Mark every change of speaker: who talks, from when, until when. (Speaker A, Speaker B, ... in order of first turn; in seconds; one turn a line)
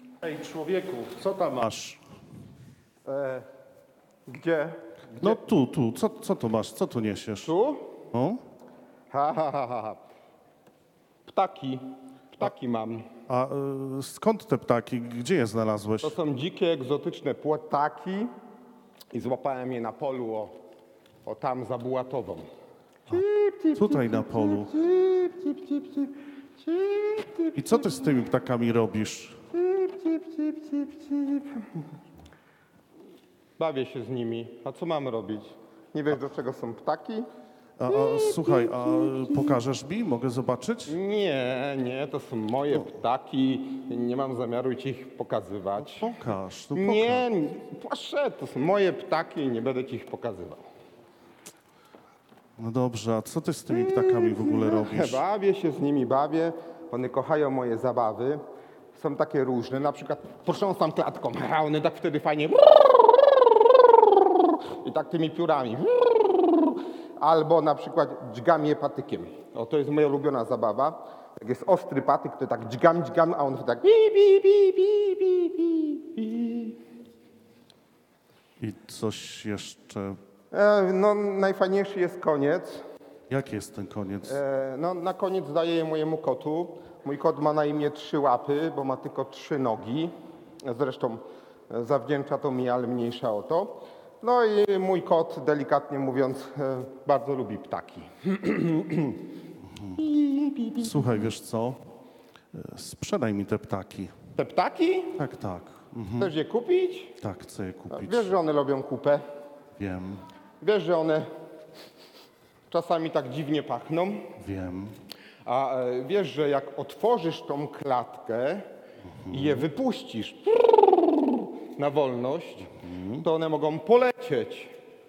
Speaker A: 0.2-2.0
Speaker B: 3.0-3.5
Speaker B: 4.3-5.4
Speaker A: 5.2-7.5
Speaker B: 7.4-7.9
Speaker A: 8.1-8.4
Speaker B: 9.1-10.0
Speaker B: 11.2-13.1
Speaker A: 13.3-16.2
Speaker B: 16.0-18.3
Speaker B: 19.1-20.5
Speaker B: 21.2-22.4
Speaker B: 23.1-27.6
Speaker A: 23.7-24.7
Speaker A: 27.5-29.4
Speaker B: 29.5-31.8
Speaker B: 33.6-37.3
Speaker A: 37.8-41.0
Speaker B: 37.9-39.5
Speaker B: 40.9-46.1
Speaker A: 45.8-47.2
Speaker B: 46.7-50.6
Speaker A: 52.6-55.2
Speaker B: 53.7-58.4
Speaker B: 58.9-76.8
Speaker A: 78.6-80.2
Speaker B: 80.5-82.8
Speaker A: 83.3-84.4
Speaker B: 84.2-99.2
Speaker A: 99.8-100.0
Speaker B: 99.9-100.9
Speaker A: 100.8-101.8
Speaker A: 102.5-104.1
Speaker B: 104.3-105.2
Speaker A: 105.2-106.3
Speaker B: 106.2-107.2
Speaker A: 107.2-108.3
Speaker B: 107.9-109.2
Speaker A: 109.8-110.2
Speaker B: 110.6-111.3
Speaker B: 112.7-114.2
Speaker A: 114.4-114.9
Speaker B: 115.4-118.7
Speaker A: 119.2-119.6
Speaker B: 119.3-124.7
Speaker A: 122.8-123.2